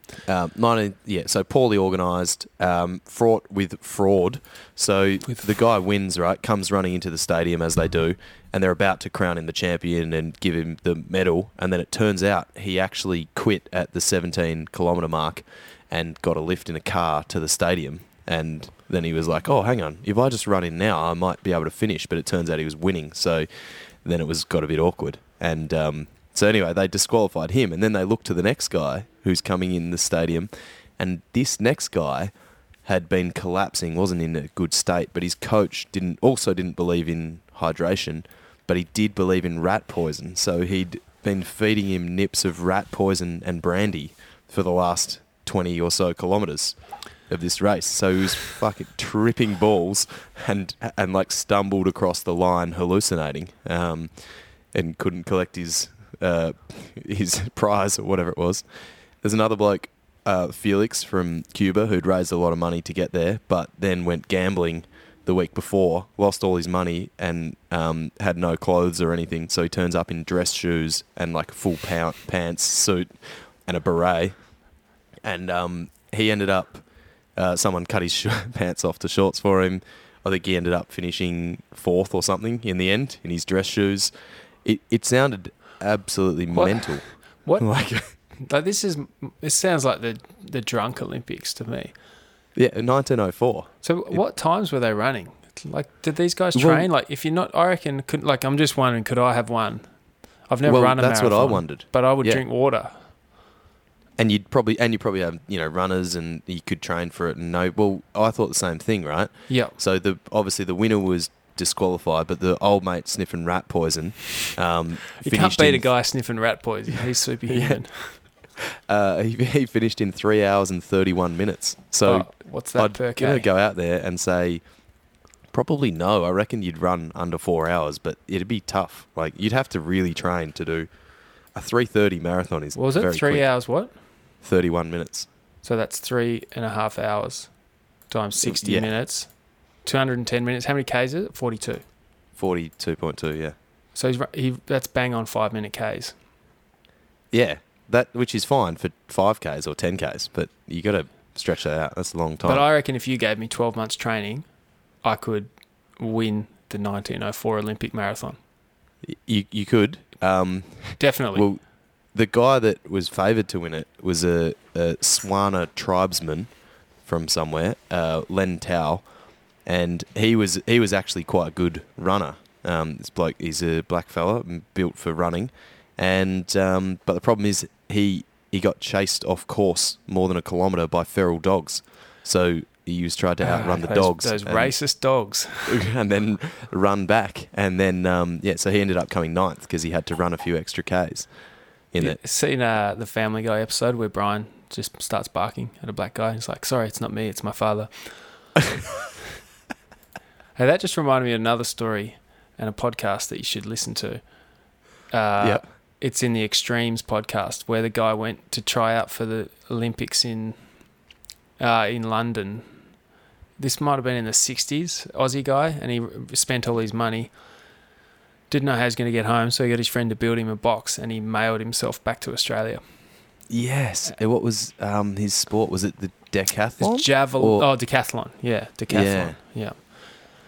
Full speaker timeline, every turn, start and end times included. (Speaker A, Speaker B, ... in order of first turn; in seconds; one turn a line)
Speaker A: 0.2-88.1
Speaker B: 86.5-92.0
Speaker A: 92.5-94.2
Speaker B: 93.8-103.1
Speaker A: 96.5-96.9
Speaker A: 100.6-102.4
Speaker A: 104.2-116.4
Speaker B: 109.5-109.8
Speaker B: 115.2-118.2
Speaker A: 117.5-135.3
Speaker B: 122.0-123.5
Speaker B: 132.7-134.0
Speaker B: 135.6-141.8
Speaker A: 138.4-139.0
Speaker A: 142.3-143.6
Speaker B: 143.9-146.2
Speaker A: 147.3-152.7
Speaker B: 152.4-158.4
Speaker A: 159.0-192.2
Speaker B: 161.0-161.5
Speaker B: 183.4-185.7
Speaker B: 192.0-198.6
Speaker B: 200.6-211.0
Speaker A: 205.4-205.7
Speaker B: 211.6-213.0
Speaker B: 213.6-217.8
Speaker B: 218.5-223.4
Speaker A: 223.5-227.7
Speaker B: 226.8-229.9
Speaker A: 228.9-229.4